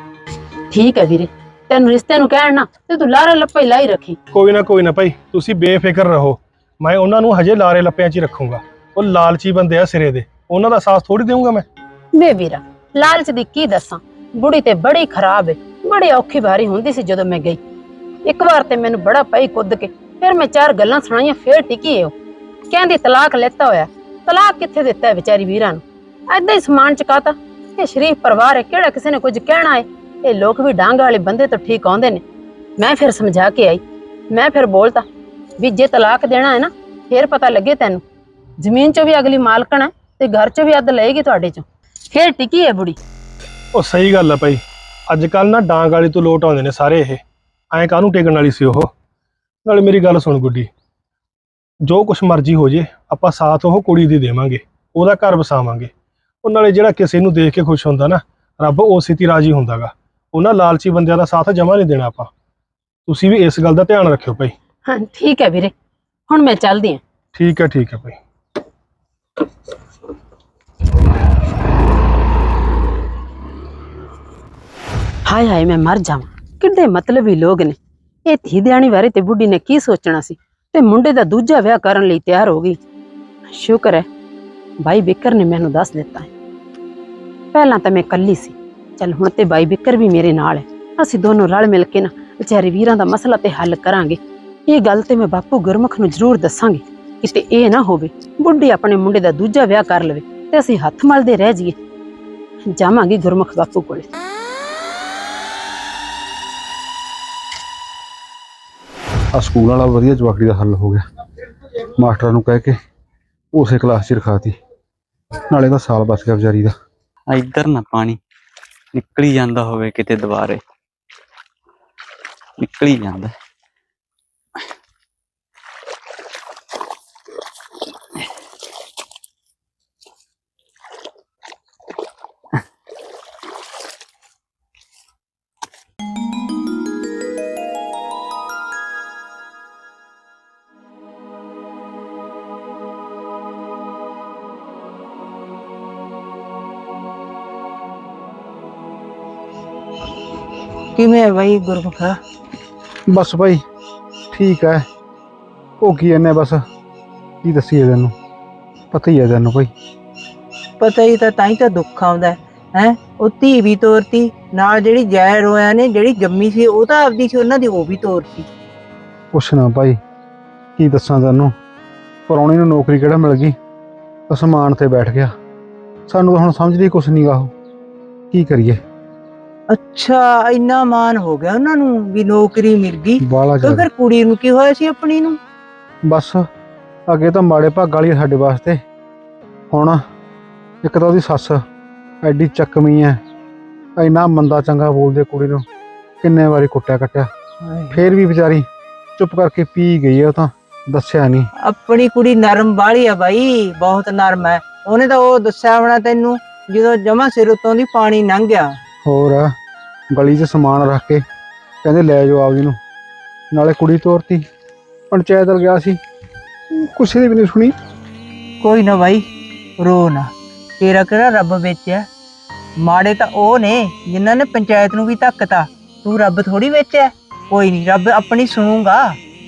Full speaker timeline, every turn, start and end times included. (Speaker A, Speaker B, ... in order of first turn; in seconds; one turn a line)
Speaker A: 0.7-4.2
Speaker B: 4.3-11.6
Speaker A: 12.1-17.6
Speaker A: 18.2-22.1
Speaker A: 22.7-32.2
Speaker A: 32.8-35.0
Speaker A: 35.6-38.0
Speaker A: 38.6-43.0
Speaker B: 43.7-47.2
Speaker B: 47.7-48.9
Speaker B: 49.6-50.7
Speaker B: 51.8-55.9
Speaker B: 56.4-62.3
Speaker B: 63.1-64.5
Speaker A: 64.8-65.7
Speaker A: 66.3-67.0
Speaker B: 67.3-68.2
Speaker A: 75.3-82.8
Speaker A: 83.5-84.1
Speaker A: 84.8-86.3
Speaker A: 87.5-101.8
Speaker A: 102.7-104.1
Speaker C: 109.3-111.0
Speaker C: 112.0-112.8
Speaker C: 113.5-114.5
Speaker C: 115.5-116.8
Speaker D: 117.3-118.2
Speaker D: 118.9-120.6
Speaker D: 122.6-123.3
Speaker E: 150.9-152.2
Speaker C: 153.1-153.6
Speaker C: 154.3-154.8
Speaker C: 155.8-156.7
Speaker C: 157.4-158.1
Speaker C: 158.9-159.7
Speaker E: 160.8-168.5
Speaker C: 169.3-170.0
Speaker C: 170.8-171.5
Speaker C: 172.3-173.6
Speaker C: 174.3-175.3
Speaker C: 176.1-177.5
Speaker C: 178.3-178.8
Speaker E: 179.7-185.4
Speaker C: 183.2-183.9
Speaker C: 186.1-186.5
Speaker C: 187.1-188.8
Speaker C: 189.7-190.0
Speaker C: 190.8-191.6
Speaker C: 192.2-193.2
Speaker C: 194.0-195.6
Speaker C: 196.2-197.3
Speaker E: 197.6-198.0
Speaker C: 197.9-198.7
Speaker C: 199.2-201.5
Speaker E: 201.6-208.8
Speaker C: 209.0-209.5
Speaker C: 210.1-211.2
Speaker C: 211.8-212.8
Speaker C: 213.5-214.5
Speaker C: 215.1-216.0
Speaker C: 216.7-217.8
Speaker E: 218.6-219.3
Speaker E: 219.8-222.1
Speaker E: 222.8-229.2